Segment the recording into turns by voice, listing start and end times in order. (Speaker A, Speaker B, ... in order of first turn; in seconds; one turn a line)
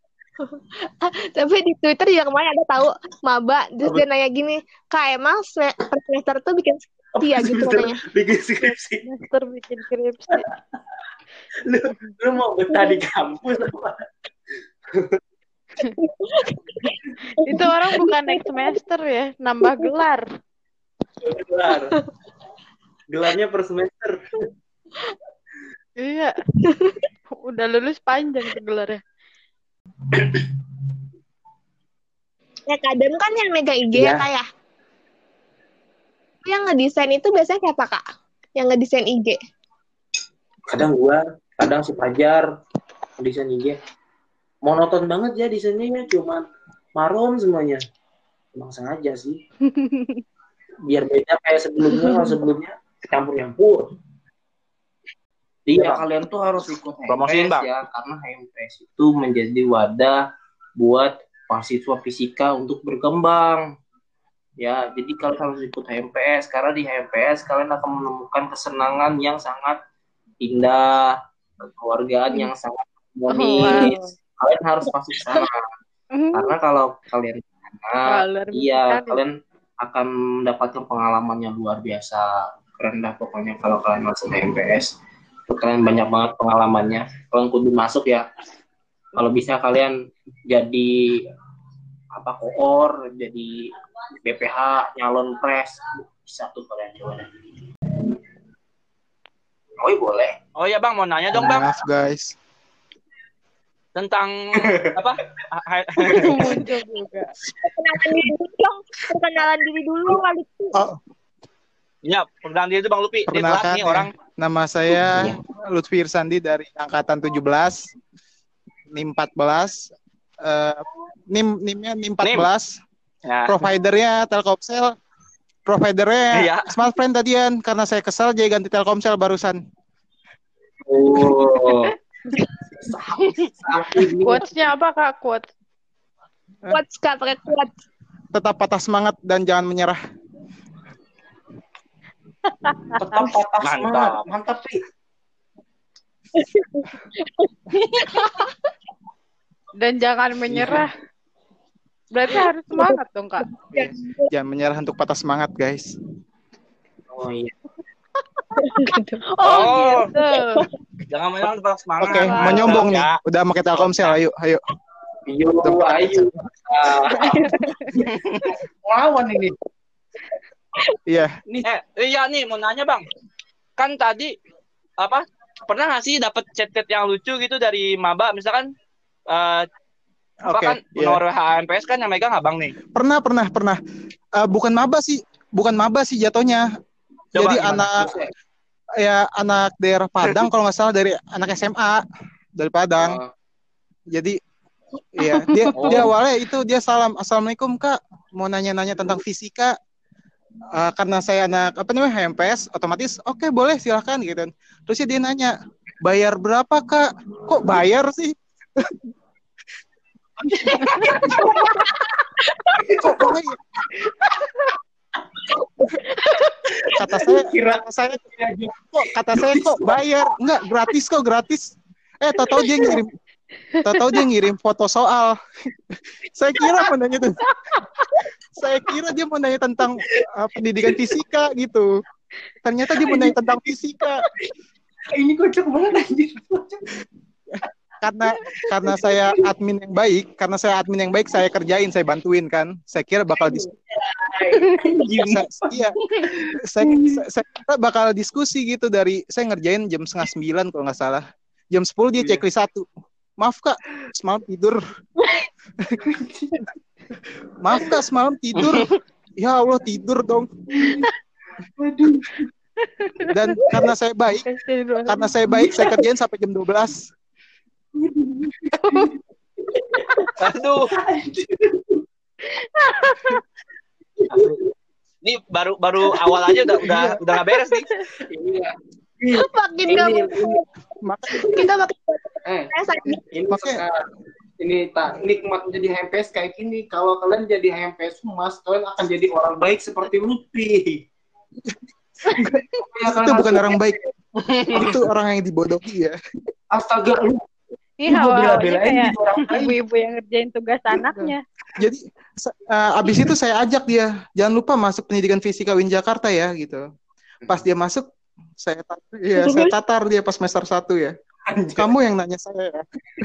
Speaker A: 0.4-8.0
Speaker B: 7.1-9.1
Speaker C: 9.0-10.4
Speaker B: 10.3-10.8
Speaker B: 11.7-14.1
Speaker A: 12.7-13.0
Speaker A: 16.0-18.7
Speaker C: 17.4-20.2
Speaker B: 21.2-22.0
Speaker B: 23.1-24.4
Speaker C: 26.0-26.4
Speaker A: 26.6-27.0
Speaker C: 27.4-29.0
Speaker B: 30.1-30.4
Speaker A: 32.7-34.4
Speaker B: 33.9-34.3
Speaker A: 36.4-38.0
Speaker A: 38.6-39.4
Speaker B: 40.7-42.4
Speaker B: 43.2-43.8
Speaker B: 44.6-46.4
Speaker B: 47.0-47.8
Speaker B: 48.5-49.4
Speaker C: 49.6-50.2
Speaker B: 50.9-53.9
Speaker B: 55.6-60.2
Speaker D: 55.8-56.0
Speaker D: 57.1-57.7
Speaker B: 60.8-63.6
Speaker B: 64.6-69.8
Speaker B: 70.4-75.7
Speaker C: 73.3-74.1
Speaker C: 76.1-76.5
Speaker B: 76.3-84.9
Speaker C: 78.1-79.2
Speaker B: 85.5-88.2
Speaker B: 89.2-90.0
Speaker B: 90.5-91.2
Speaker B: 92.1-93.7
Speaker B: 94.2-97.3
Speaker B: 99.8-100.4
Speaker D: 100.5-101.7
Speaker E: 101.3-102.3
Speaker D: 104.0-106.6
Speaker B: 104.7-104.9
Speaker C: 106.1-107.3
Speaker E: 106.2-106.6
Speaker A: 107.6-110.8
Speaker D: 112.0-114.1
Speaker E: 113.3-117.9
Speaker E: 118.9-119.8
Speaker E: 120.4-122.8
Speaker D: 122.2-122.5
Speaker D: 123.2-123.5
Speaker E: 123.5-124.9
Speaker E: 125.7-129.6
Speaker D: 126.3-126.7
Speaker B: 130.8-134.5
Speaker C: 131.7-132.4
Speaker C: 134.2-135.4
Speaker A: 136.7-137.7
Speaker E: 138.3-140.0
Speaker C: 142.5-143.3
Speaker B: 142.9-144.8
Speaker D: 143.6-144.3
Speaker A: 146.3-148.5
Speaker C: 148.2-148.5
Speaker C: 149.8-150.9
Speaker B: 150.5-150.8
Speaker C: 152.1-153.5
Speaker A: 153.5-154.3
Speaker E: 153.7-155.9
Speaker B: 157.1-157.5
Speaker C: 158.6-160.6
Speaker A: 158.6-160.3
Speaker D: 159.4-160.1
Speaker D: 161.1-163.1
Speaker E: 162.0-164.6
Speaker C: 162.1-162.8
Speaker D: 163.7-164.2
Speaker B: 165.2-169.5
Speaker E: 165.6-166.5
Speaker A: 167.1-167.5
Speaker C: 167.4-167.7
Speaker D: 168.1-168.4
Speaker E: 171.1-171.3
Speaker D: 171.6-173.1
Speaker D: 173.8-174.3
Speaker D: 175.0-178.7
Speaker D: 179.3-179.7
Speaker E: 180.4-181.2
Speaker D: 180.5-182.7
Speaker E: 182.9-183.8
Speaker E: 184.4-186.7
Speaker E: 187.3-188.1
Speaker D: 187.3-187.9
Speaker B: 187.6-188.3
Speaker E: 189.0-192.0
Speaker E: 192.6-193.2
Speaker B: 193.0-193.3
Speaker E: 195.2-199.7
Speaker C: 195.2-195.7
Speaker B: 195.8-196.1
Speaker E: 200.7-209.1
Speaker E: 210.4-211.4
Speaker B: 210.5-211.9
Speaker B: 212.7-213.4
Speaker E: 213.0-213.6
Speaker C: 216.1-216.6
Speaker B: 216.7-220.0
Speaker E: 216.9-223.1
Speaker B: 222.5-223.0
Speaker C: 223.8-224.1
Speaker E: 223.8-225.3
Speaker E: 226.3-227.4
Speaker C: 227.5-228.1
Speaker E: 228.6-231.9
Speaker E: 232.6-234.2
Speaker B: 233.0-233.3
Speaker B: 235.1-236.8
Speaker E: 237.5-243.7
Speaker B: 238.6-239.4
Speaker B: 243.3-247.2
Speaker E: 245.1-245.9
Speaker E: 246.6-254.8
Speaker B: 252.2-252.4
Speaker B: 256.0-256.6
Speaker E: 257.6-260.5
Speaker D: 258.6-258.9
Speaker B: 260.7-261.1
Speaker B: 261.6-262.5
Speaker C: 262.8-263.4
Speaker E: 263.3-264.5
Speaker C: 264.4-265.3
Speaker E: 265.0-267.1
Speaker B: 267.9-269.1
Speaker C: 268.8-269.1
Speaker B: 269.6-270.3
Speaker D: 270.4-270.9
Speaker B: 270.9-272.0
Speaker C: 272.5-273.4
Speaker B: 274.3-274.6
Speaker D: 275.2-277.9
Speaker E: 276.8-277.2
Speaker C: 277.8-278.0
Speaker B: 278.2-280.6
Speaker A: 279.3-280.6
Speaker E: 281.0-281.6
Speaker A: 281.3-283.2
Speaker B: 282.4-282.7
Speaker E: 283.1-283.8
Speaker B: 283.3-284.0
Speaker B: 284.6-291.0
Speaker E: 292.4-294.0
Speaker B: 292.8-293.8
Speaker D: 294.4-294.8
Speaker B: 294.7-295.0
Speaker E: 294.7-296.2
Speaker B: 296.7-297.5
Speaker C: 298.0-301.4
Speaker B: 298.1-299.8
Speaker E: 301.1-306.8
Speaker E: 307.5-308.0
Speaker E: 308.6-311.1
Speaker A: 309.4-309.7
Speaker B: 311.5-311.9
Speaker E: 311.8-312.8